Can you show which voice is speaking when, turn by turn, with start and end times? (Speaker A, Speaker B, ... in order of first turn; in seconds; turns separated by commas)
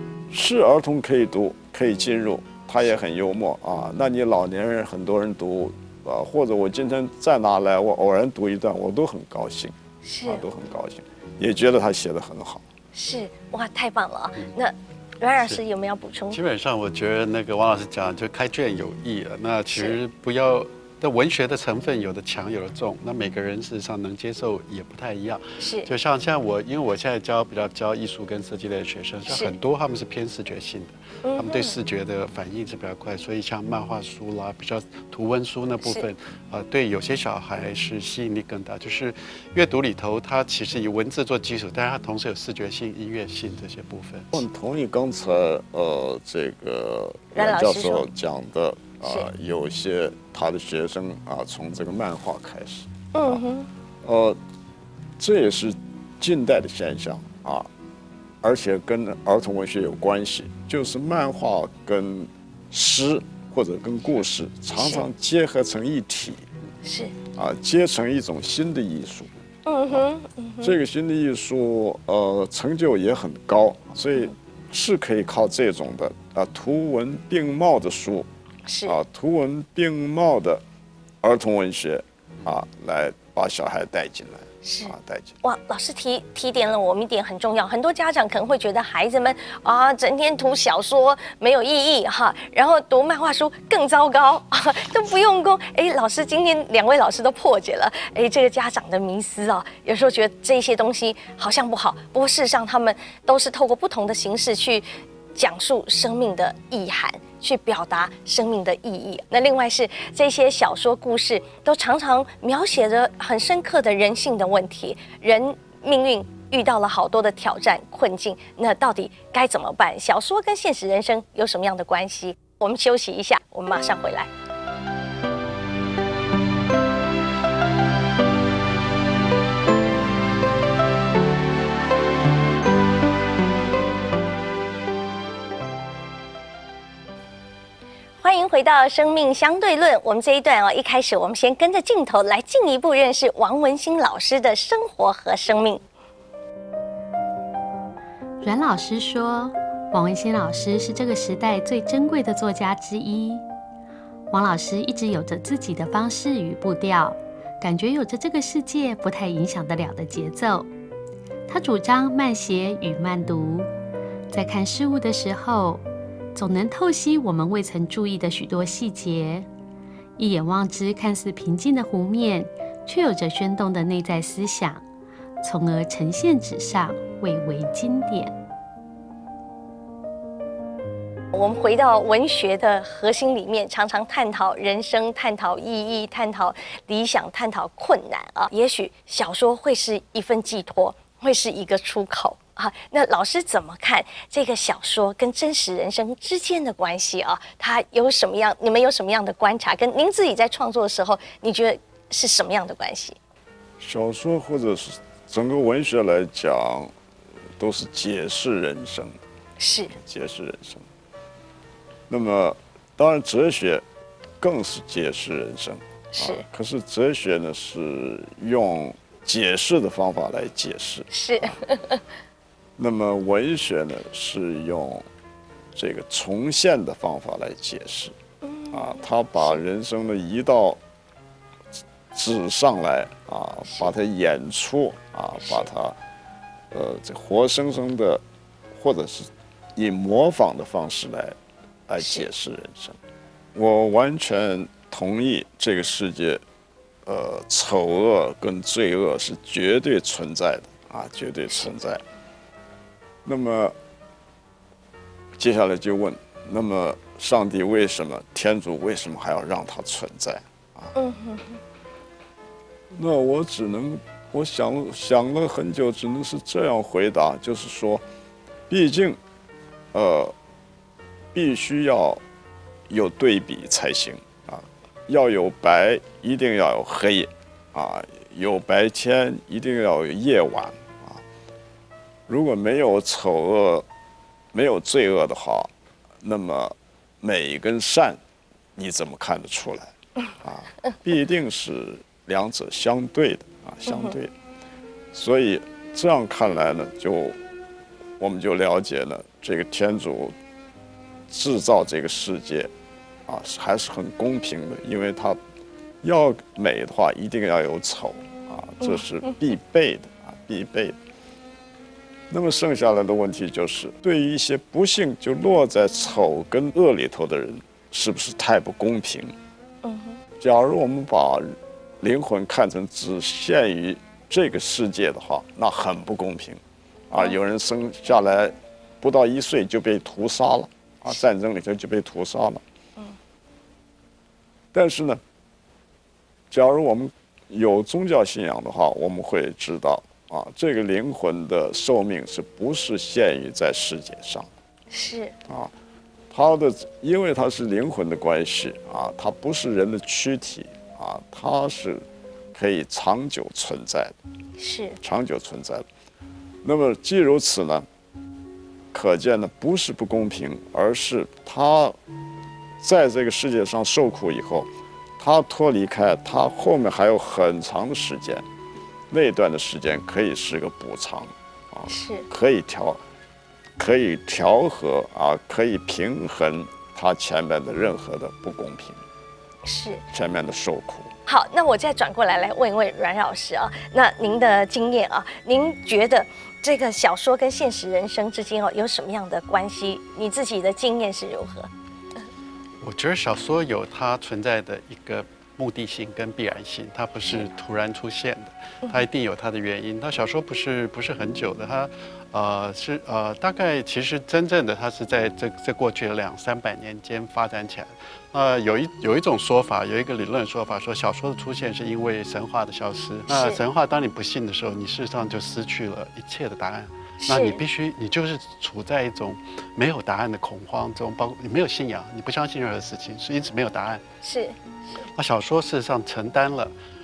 Speaker A: 0.3-12.6, Speaker B: 10.1-10.4, Speaker B: 12.9-16.4, Speaker C: 16.3-44.4, Speaker B: 19.7-20.0, Speaker B: 25.6-25.9, Speaker B: 31.2-31.8, Speaker A: 44.3-53.4, Speaker B: 47.3-48.1, Speaker B: 53.1-53.7, Speaker A: 54.0-54.4, Speaker A: 55.2-57.7, Speaker A: 58.4-66.4, Speaker B: 64.8-65.0, Speaker B: 66.8-67.1, Speaker A: 67.3-69.3, Speaker B: 69.7-70.8, Speaker A: 70.6-78.3, Speaker B: 78.7-79.0, Speaker A: 78.9-80.6, Speaker A: 81.2-85.3, Speaker B: 84.6-124.3, Speaker B: 138.2-145.8, Speaker D: 148.4-153.4, Speaker D: 154.3-160.7, Speaker D: 161.5-163.7, Speaker D: 164.3-165.8, Speaker D: 166.3-169.5, Speaker D: 170.2-174.8, Speaker D: 175.4-178.3, Speaker B: 181.3-203.2, Speaker A: 203.8-206.9, Speaker A: 207.6-209.2, Speaker B: 209.6-209.9, Speaker A: 210.0-210.9, Speaker A: 212.1-213.8, Speaker A: 214.4-221.6, Speaker B: 216.1-216.4, Speaker B: 221.1-222.0, Speaker A: 222.8-225.1, Speaker A: 225.8-228.2, Speaker B: 228.4-229.6, Speaker A: 228.7-230.8, Speaker A: 232.1-236.0, Speaker B: 235.4-235.7, Speaker A: 236.7-241.4, Speaker A: 241.9-243.0, Speaker B: 242.0-242.3, Speaker A: 243.6-246.4, Speaker A: 247.1-252.0, Speaker A: 253.2-253.8, Speaker A: 255.4-260.9, Speaker B: 261.0-261.6, Speaker A: 262.9-268.0, Speaker A: 268.7-269.2, Speaker A: 269.9-270.3, Speaker A: 271.3-272.2, Speaker A: 272.9-281.2, Speaker A: 282.3-283.9, Speaker A: 284.5-285.7, Speaker A: 286.2-288.2, Speaker A: 288.8-294.3, Speaker B: 293.9-294.2, Speaker A: 295.1-297.4, Speaker A: 298.2-300.4, Speaker A: 301.3-302.7, Speaker A: 303.3-305.4, Speaker A: 306.0-311.0, Speaker B: 308.8-309.3, Speaker A: 312.3-319.4, Speaker B: 319.8-320.2, Speaker A: 320.4-332.6, Speaker A: 334.7-335.2, Speaker A: 336.5-344.5, Speaker B: 344.9-345.3, Speaker A: 345.5-345.7, Speaker A: 346.3-354.1, Speaker B: 354.6-355.0, Speaker A: 355.0-355.9, Speaker A: 356.6-357.9, Speaker A: 358.9-362.0, Speaker A: 362.8-364.7, Speaker A: 365.2-368.4, Speaker A: 369.1-373.0, Speaker B: 371.9-372.2, Speaker A: 373.8-379.0, Speaker B: 379.6-380.0, Speaker A: 380.1-381.1, Speaker B: 381.3-391.7, Speaker C: 392.8-424.0, Speaker B: 413.3-413.6, Speaker B: 417.2-417.6, Speaker B: 424.2-424.6, Speaker C: 425.0-426.7